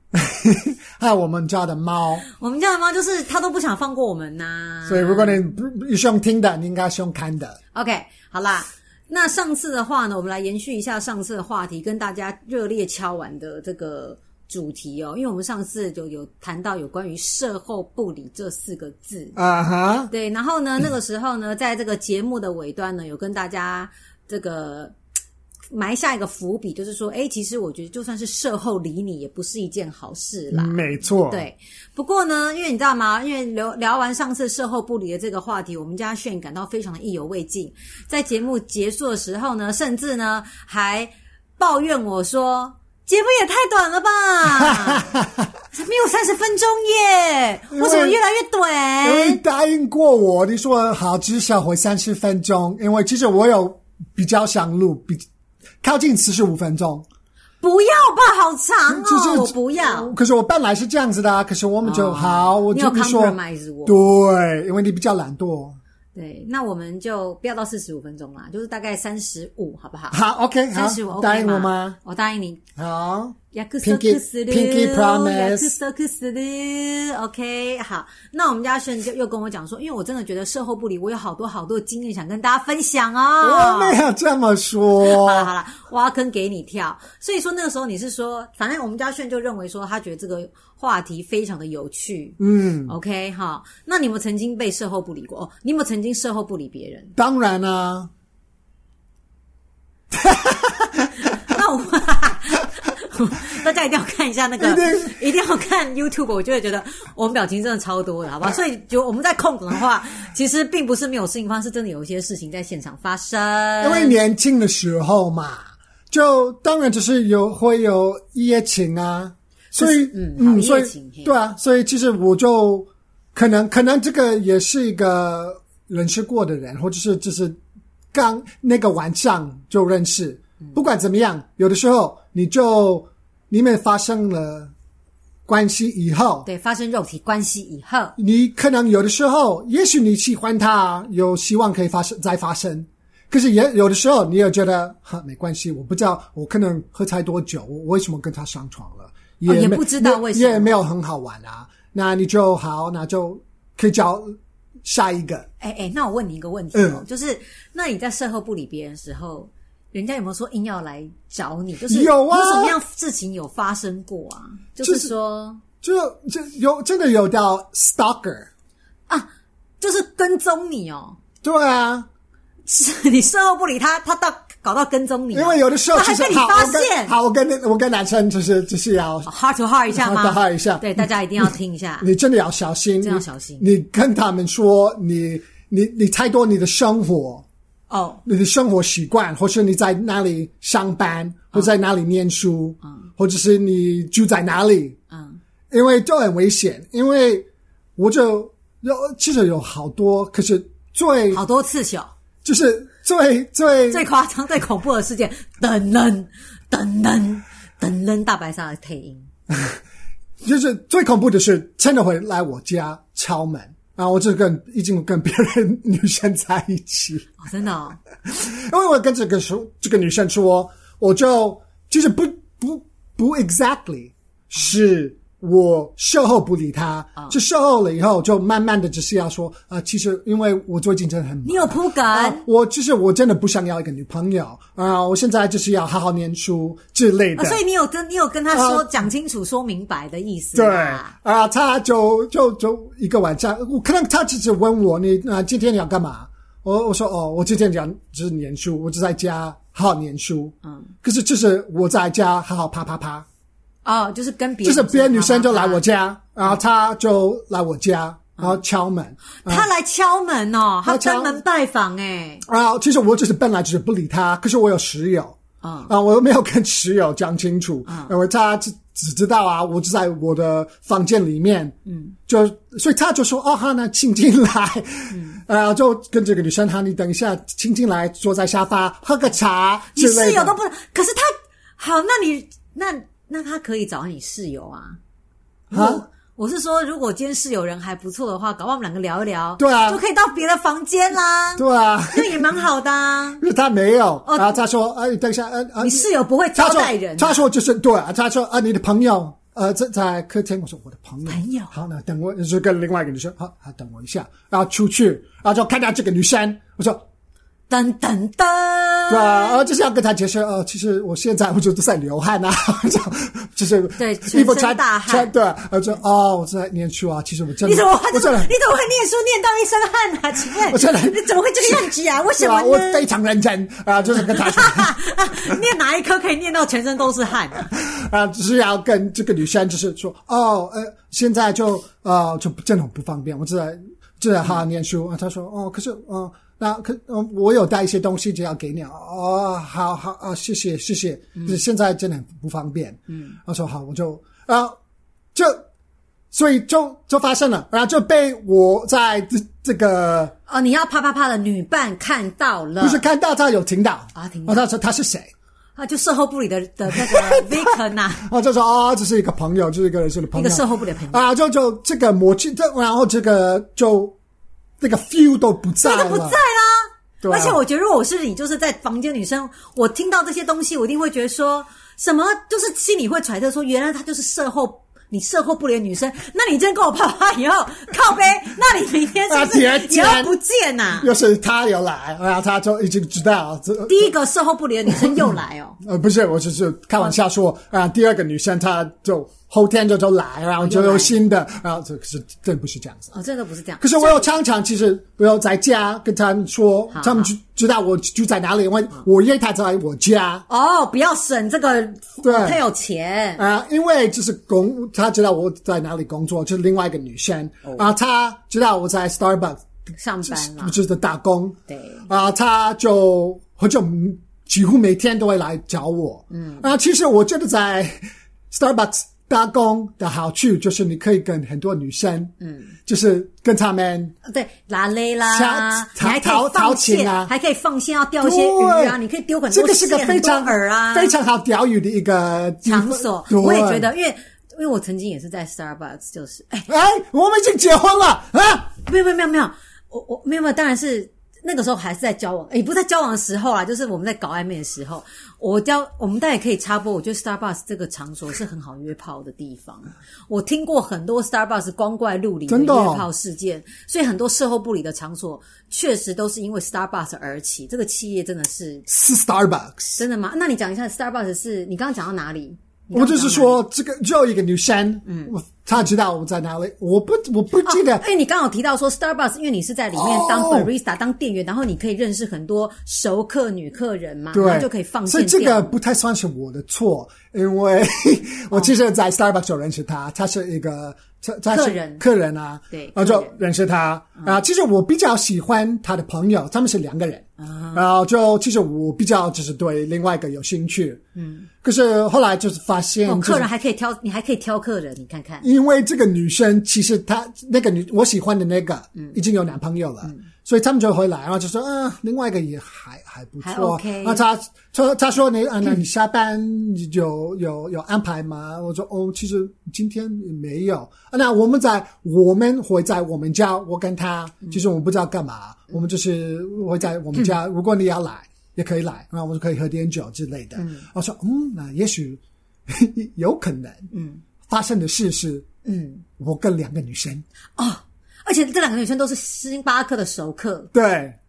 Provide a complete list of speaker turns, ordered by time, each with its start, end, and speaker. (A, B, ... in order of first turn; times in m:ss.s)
0:00.1-0:02.2 A
0:02.3-0:05.4 B
0:04.9-0:07.6 A
0:07.7-0:19.4 B
0:19.4-0:20.1 A
0:20.1-0:24.9 B
0:25.7-0:45.1 B
0:30.5-0:31.5 A
0:44.5-0:45.5 A
0:45.7-0:49.4 B
0:47.7-0:48.2 A
0:49.0-0:55.2 A
0:55.8-0:57.0 A
0:57.6-1:00.1 B
0:58.9-1:05.8 A
1:01.8-1:04.0 B
1:06.2-1:10.2 B
1:10.1-1:12.0 A
1:10.7-1:12.6 B
1:12.8-1:15.7 A
1:13.5-1:24.0 B
1:23.4-1:25.5 A
1:25.0-1:37.1 B
1:32.4-1:32.9 A
1:37.2-1:38.1 A
1:40.1-1:41.3 A
1:41.2-1:54.2 B
1:44.6-1:45.2 A
1:53.8-2:07.6 A
1:59.7-2:01.3 B
2:08.1-2:14.7 A
2:15.5-2:16.5 A
2:16.4-2:18.2 B
2:18.2-2:35.5 A
2:29.4-2:30.8 B
2:35.6-2:45.6 B
2:36.7-2:37.0 A
2:41.9-2:42.8 A
2:44.8-2:45.1 A
2:45.8-2:48.5 A
2:49.8-2:51.2 B
2:51.4-2:52.1 A
2:52.7-2:57.2 B
2:55.3-2:59.3 A
2:59.3-3:02.1 B
2:59.9-3:07.4 A
3:03.0-3:03.7 B
3:07.9-3:08.2 B
3:08.2-3:15.0 A
3:12.8-3:13.1 B
3:15.1-3:15.4 B
3:15.7-3:21.4 A
3:21.3-3:22.1 B
3:22.4-3:24.1 A
3:23.9-3:29.3 B
3:29.5-3:29.8 A
3:30.4-3:37.3 A
3:37.4-3:38.0 B
3:38.2-3:57.6 A
3:51.4-3:52.5 B
3:57.4-4:01.1 B
3:58.5-3:58.9 A
4:00.6-4:13.3 A
4:10.6-4:10.9 B
4:13.8-4:15.8 B
4:14.6-4:19.7 A
4:19.4-4:22.4 B
4:20.8-4:21.4 A
4:22.5-4:25.4 A
4:25.6-4:25.9 B
4:25.9-4:31.7 A
4:27.9-4:28.1 B
4:31.9-4:32.2 B
4:32.3-4:40.6 A
4:35.1-4:35.4 B
4:39.9-4:45.0 B
4:45.7-4:46.0 A
4:45.7-4:53.4 B
4:49.6-4:50.0 A
4:51.6-4:52.5 A
4:53.4-5:07.0 A
4:54.3-4:54.6 B
4:55.8-4:57.5 B
5:01.3-5:01.7 B
5:07.7-5:09.6 B
5:09.1-5:18.5 A
5:14.0-5:15.3 B
5:17.6-5:23.0 B
5:20.6-5:24.9 A
5:24.1-5:27.7 B
5:27.6-5:44.8 A
5:41.4-5:41.6 B
5:43.1-5:43.4 B
5:45.4-5:45.6 A
5:46.3-5:50.3 A
5:50.5-5:53.1 B
5:52.8-5:55.3 A
5:54.2-5:54.6 B
5:55.8-5:58.3 B
5:56.9-6:04.2 A
6:00.3-6:01.2 B
6:04.8-6:06.4 A
6:05.8-6:21.1 B
6:07.2-6:07.6 A
6:19.3-6:20.3 A
6:21.0-6:24.1 A
6:23.9-6:25.8 B
6:24.9-6:33.1 A
6:30.6-6:31.2 B
6:33.1-6:34.3 B
6:33.8-6:40.5 A
6:36.9-6:37.3 B
6:40.5-6:43.4 B
6:42.2-6:42.6 A
6:43.4-6:49.6 A
6:47.6-6:47.9 B
6:50.0-6:50.8 B
6:50.2-6:51.6 A
6:51.7-6:52.1 B
6:52.1-7:02.3 A
6:56.3-6:56.7 B
7:02.4-7:02.7 B
7:02.9-7:04.1 A
7:04.2-7:11.1 B
7:05.3-7:07.3 A
7:08.2-7:09.0 A
7:09.5-7:13.9 A
7:12.6-7:16.7 B
7:16.7-7:18.8 A
7:18.8-7:38.9 B
7:32.5-7:33.1 A
7:38.9-7:40.0 A
7:40.0-7:43.6 B
7:42.9-7:48.0 A
7:45.1-7:45.3 B
7:47.6-7:55.8 B
7:50.0-7:50.7 A
7:54.3-8:11.0 A
8:01.5-8:02.0 B
8:02.7-8:03.4 B
8:07.4-8:07.8 B
8:11.2-8:11.5 B
8:11.6-8:13.5 A
8:13.0-8:15.5 B
8:15.4-8:43.9 A
8:23.4-8:24.2 B
8:40.6-8:40.9 B
8:43.9-8:44.2 B
8:44.5-8:45.5 A
8:45.6-8:46.0 B
8:46.2-8:47.2 A
8:47.6-8:50.7 B
8:50.7-8:51.2 A